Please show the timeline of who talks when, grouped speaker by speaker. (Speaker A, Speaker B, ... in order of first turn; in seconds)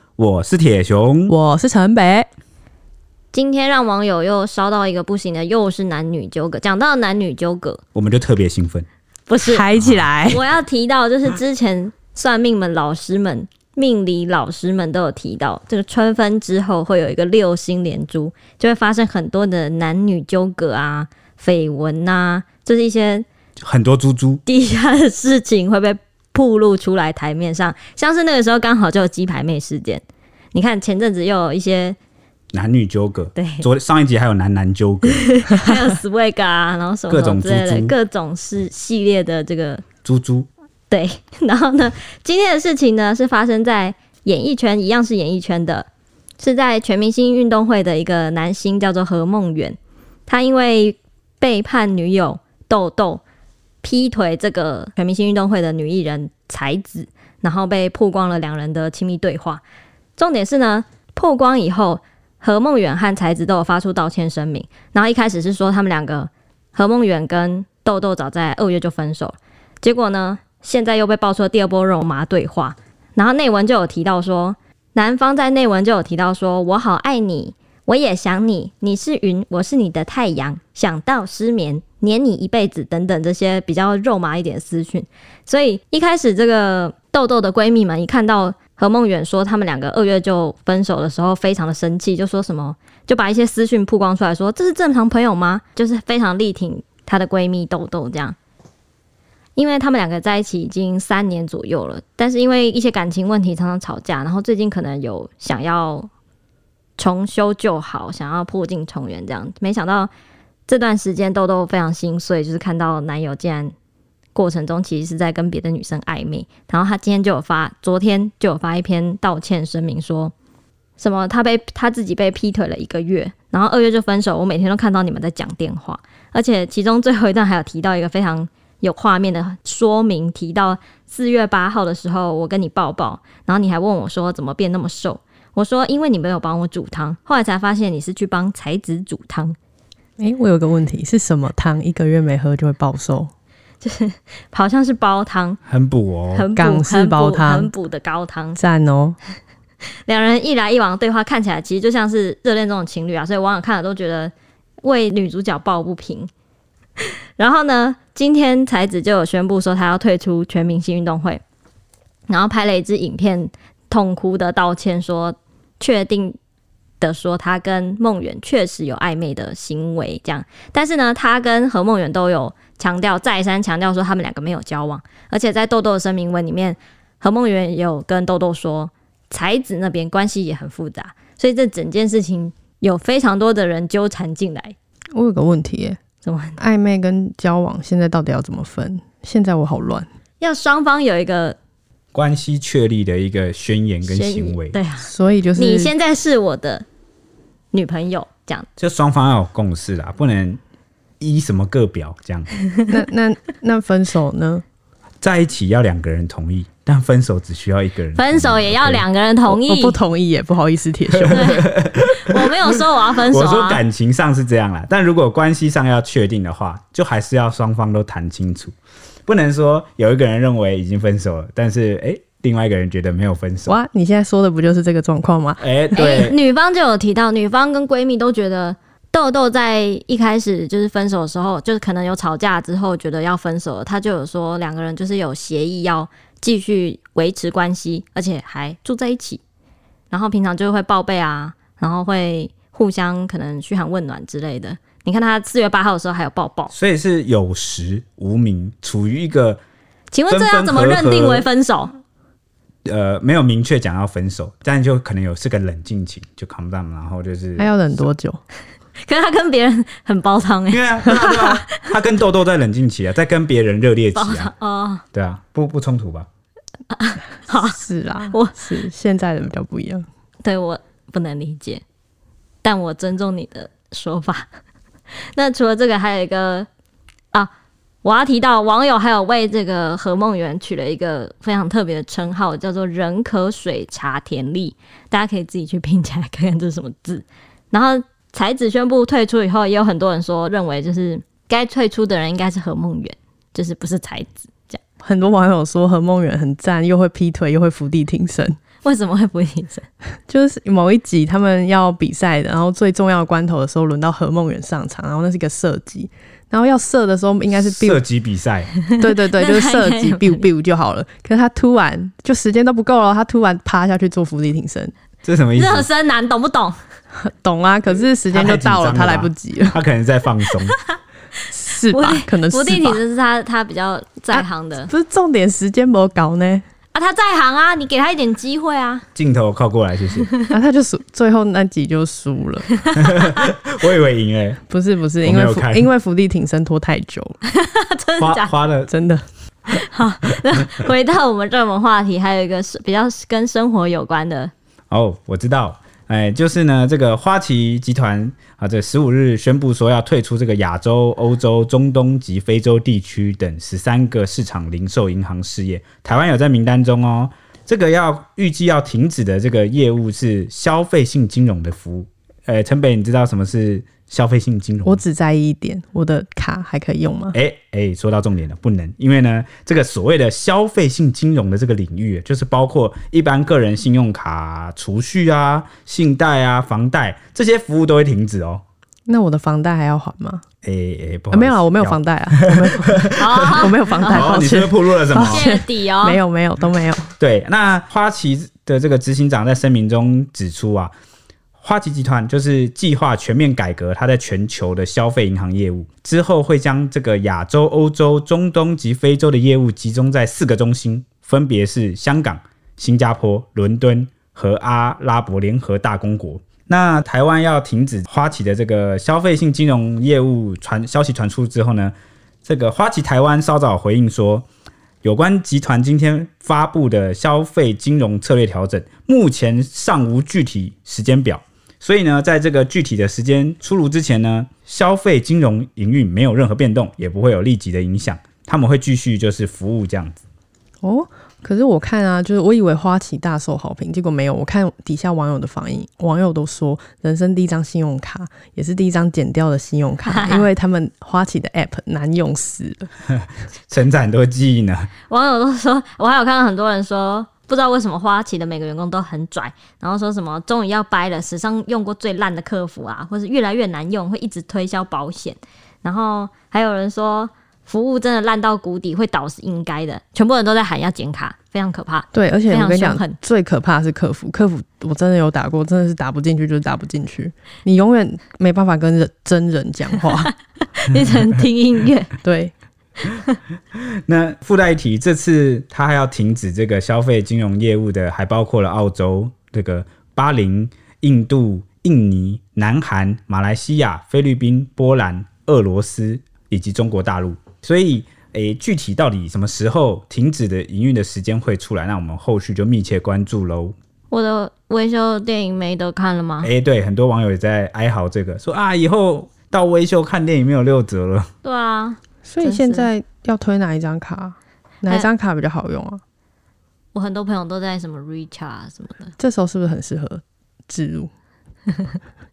Speaker A: 0.2-1.4, 8.0-8.9, 23.6-24.4, 32.5-35.4, 37.1-38.0, 40.0-40.5, 145.7-146.5, 192.1-194.8, 198.8-200.6, 201.2-202.5, 205.2-209.1, 211.2-218.7, 219.3-223.8, 225.6-226.4, 246.7-249.6, 250.3-251.5, 252.9-257.8, 260.7-264.5, 265.1-266.3, 307.6-308.8, 315.2-315.9, 318.3-320.8, 329.1-330.3, 333.0-334.6, 335.2-335.9, 338.2-338.9, 344.9-365.0, 367.3-378.6, 380.6-385.5, 387.2-390.9, 391.6-411.9, 412.4-414.5, 415.0-430.2, 443.1-444.9, 474.1-493.8, 496.4-501.3
Speaker B: 1.3-2.3, 9.4-10.4, 140.2-143.3, 146.6-147.7, 148.6-149.2, 185.2-186.0, 186.6-190.1, 195.0-195.9, 202.9-204.6, 209.5-211.6, 223.7-226.0, 257.6-258.4, 267.6-270.1, 295.0-298.6, 300.3-308.0, 308.9-314.9, 317.2-319.8, 321.5-323.0, 324.3-326.6, 330.5-332.8, 334.7-337.4, 338.9-339.2, 364.9-367.4, 379.1-380.4, 381.3-387.1, 430.8-442.9, 462.1-470.3, 472.2-472.5, 502.2-506.0, 509.2-511.1
Speaker C: 3.3-7.8, 9.3-9.7, 10.2-23.3, 24.5-32.0, 33.4-33.7, 35.1-39.8, 40.9-45.9, 46.4-53.2, 53.8-59.6, 60.2-98.4, 99.6-106.1, 107.0-110.1, 110.7-113.7, 114.3-120.3, 121.0-139.6, 143.8-145.6, 146.3-148.6, 150.1-156.3, 157.4-161.4, 162.3-166.4, 167.0-184.8, 186.2-186.6, 190.4-191.6, 194.1-196.9, 197.7-198.7, 208.2-210.0, 211.3-213.8, 225.9-239.4, 240.1-246.7, 250.1-251.9, 259.0-261.9, 264.1-265.0, 266.9-268.5, 270.4-271.8, 272.6-274.5, 275.4-276.7, 278.0-294.8, 298.8-299.9, 308.9-310.5, 315.6-316.8, 321.9-324.9, 326.9-329.1, 337.5-338.5, 339.7-344.5, 383.2-384.3, 385.1-386.2, 440.1-440.5, 445.1-463.2, 470.8-472.1, 494.1-496.5, 501.4-502.9, 506.9-509.1